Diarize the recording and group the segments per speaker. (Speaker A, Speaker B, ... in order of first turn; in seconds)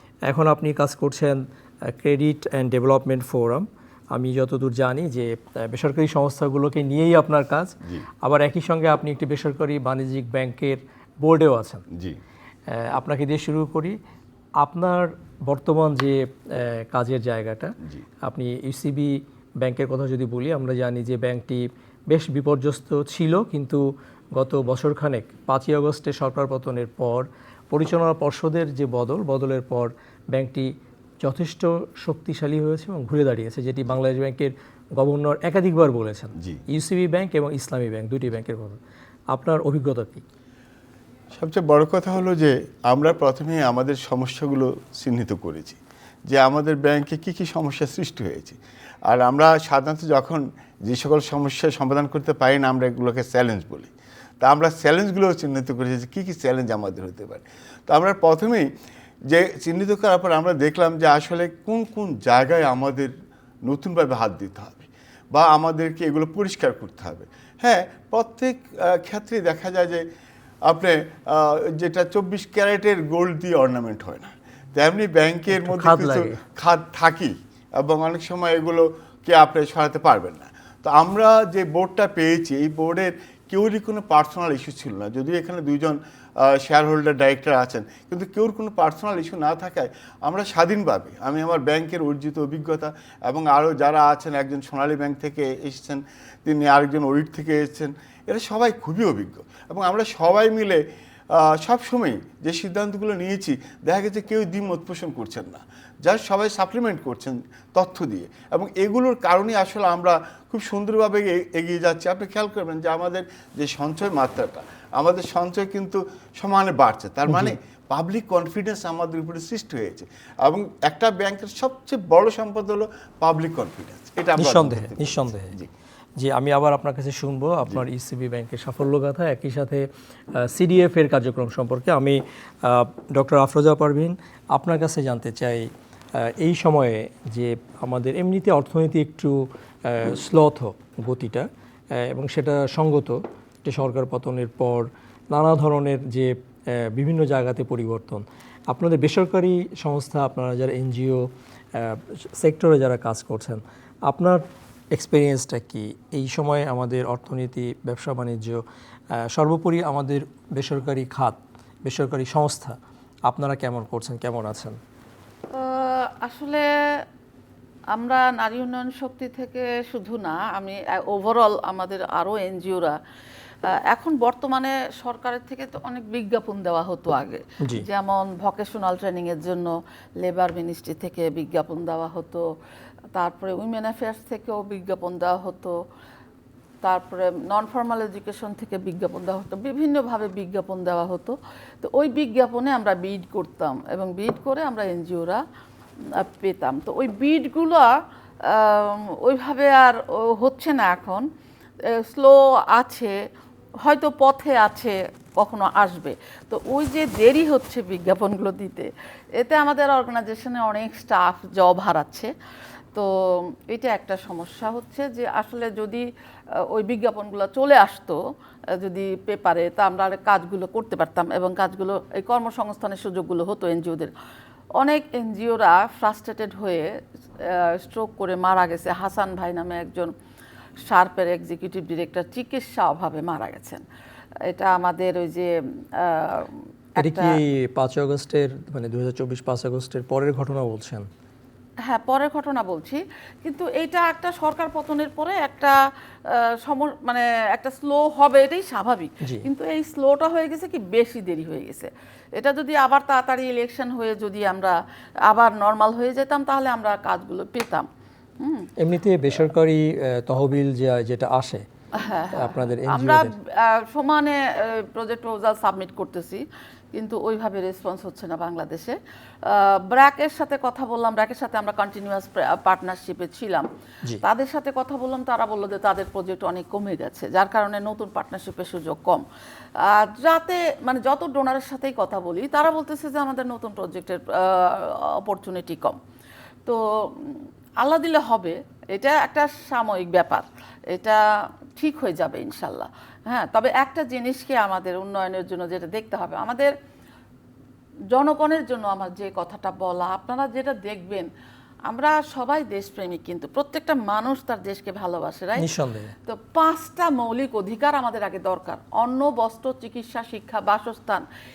Speaker A: 0.3-11.8, 12.7-14.0, 14.6-38.8, 39.3-40.2, 75.5-76.4, 117.3-117.5, 124.4-125.5, 126.2-162.8, 163.3-164.8, 237.0-241.1, 258.8-261.6, 262.4-263.3, 305.6-306.1
Speaker B: 11.9-12.2, 41.3-58.7, 59.3-63.1, 63.7-70.1, 70.7-125.7
Speaker C: 165.5-167.0, 167.9-173.0, 173.7-182.4, 183.2-185.8, 186.8-195.4, 196.0-201.3, 201.8-203.2, 203.8-212.3, 212.9-216.1, 216.6-218.2, 218.8-224.1, 224.8-230.1, 230.8-233.8, 234.5-237.4, 241.9-257.9, 258.4-258.7, 261.9-273.7, 274.2-279.2, 279.8-286.0, 286.7-291.2, 291.8-296.7, 298.1-301.3, 301.9-305.7, 306.3-311.2